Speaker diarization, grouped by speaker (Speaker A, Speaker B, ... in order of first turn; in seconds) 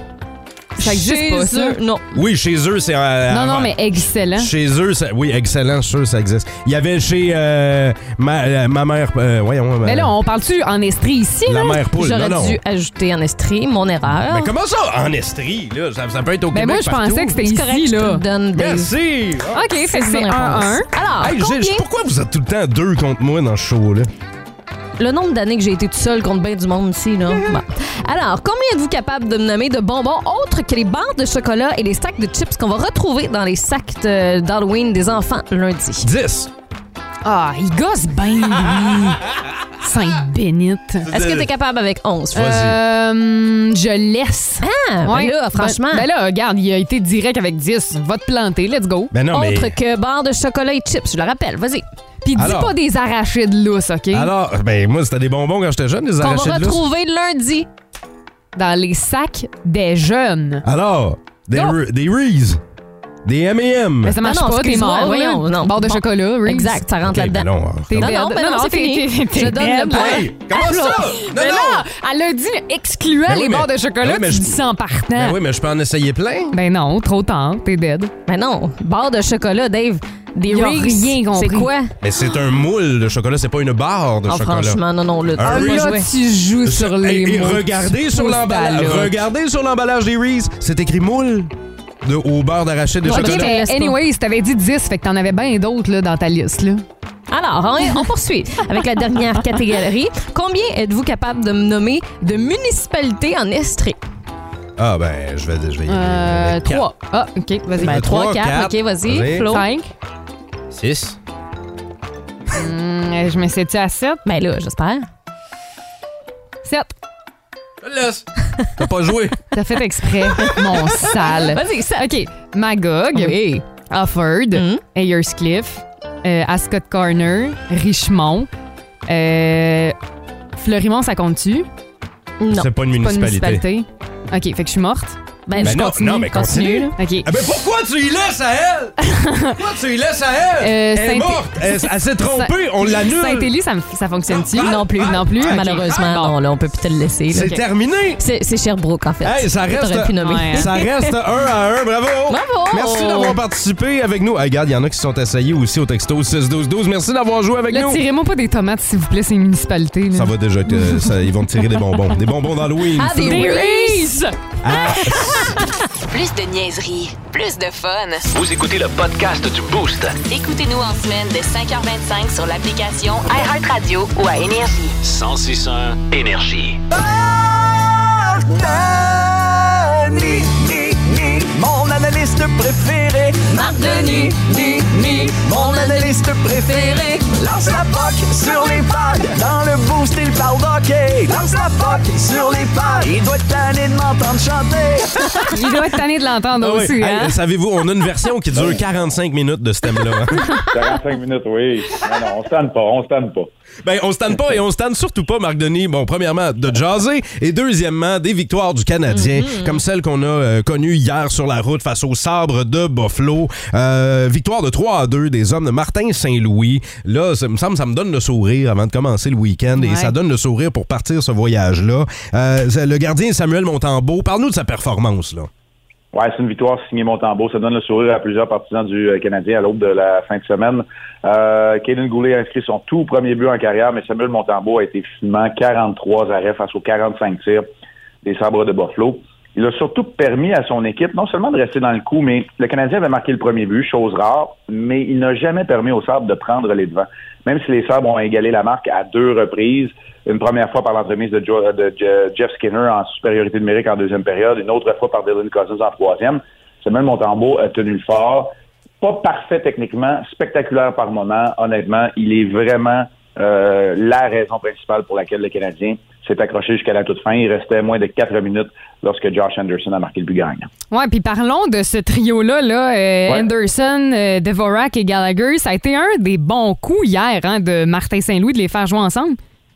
Speaker A: 0.8-1.8, 3.3-4.5, 9.8-11.8, 16.5-18.2, 19.5-20.9, 37.2-39.2, 39.8-41.1, 42.3-49.1, 52.2-54.3, 58.5-60.6, 61.5-61.8, 64.0-66.8, 67.9-75.4, 76.5-78.1, 80.5-81.7, 85.4-89.2, 93.0-96.8, 105.9-108.1, 109.5-109.9, 112.5-114.2, 116.6-116.9, 119.5-128.5, 129.1-129.9, 130.6-131.7, 133.0-137.3, 139.0-139.6, 140.6-146.3, 150.2-150.7, 157.7-160.3, 163.2-164.3, 195.5-197.4, 219.8-220.1, 270.9-279.4
Speaker B: 0.8-2.2, 11.9-14.5, 17.3-18.9, 19.8-21.8, 25.0-36.1, 41.0-42.6, 44.6-46.1, 49.3-51.9, 56.2-57.7, 64.2-70.3, 78.2-81.9, 84.3-86.0, 93.0-94.0, 97.3-104.0, 107.8-109.7, 114.2-115.1, 121.3-122.1, 123.1-123.6, 124.5-124.8, 132.4-132.7, 135.5-136.9, 144.6-147.6, 148.2-151.1, 152.3-153.4, 162.9-164.1, 165.3-165.6, 183.5-184.3, 185.6-186.1, 209.1-209.8
Speaker C: 2.1-10.1, 11.4-12.6, 14.2-17.4, 18.5-19.6, 21.2-24.1, 27.3-27.6, 36.0-36.5, 41.0-41.5, 42.3-42.8, 49.1-49.8, 52.4-52.7, 54.1-56.8, 60.6-62.6, 63.2-64.2, 67.0-68.1, 69.9-71.8, 73.2-74.6, 75.1-76.5, 82.0-84.8, 85.3-86.0, 86.6-93.6, 104.8-106.9, 107.8-109.6, 110.7-111.2, 117.8-118.2, 118.8-119.4, 132.5-133.6, 135.6-143.5, 144.2-145.9, 147.3-148.2, 149.2-158.0, 160.1-163.7, 164.6-165.6, 196.6-200.6, 203.8-225.5
Speaker D: 166.1-168.3, 170.2-174.9
Speaker E: 168.3-170.2, 175.0-176.8
Speaker F: 176.9-195.5
Speaker G: 198.5-198.8, 200.6-203.5, 226.1-237.7, 238.2-270.7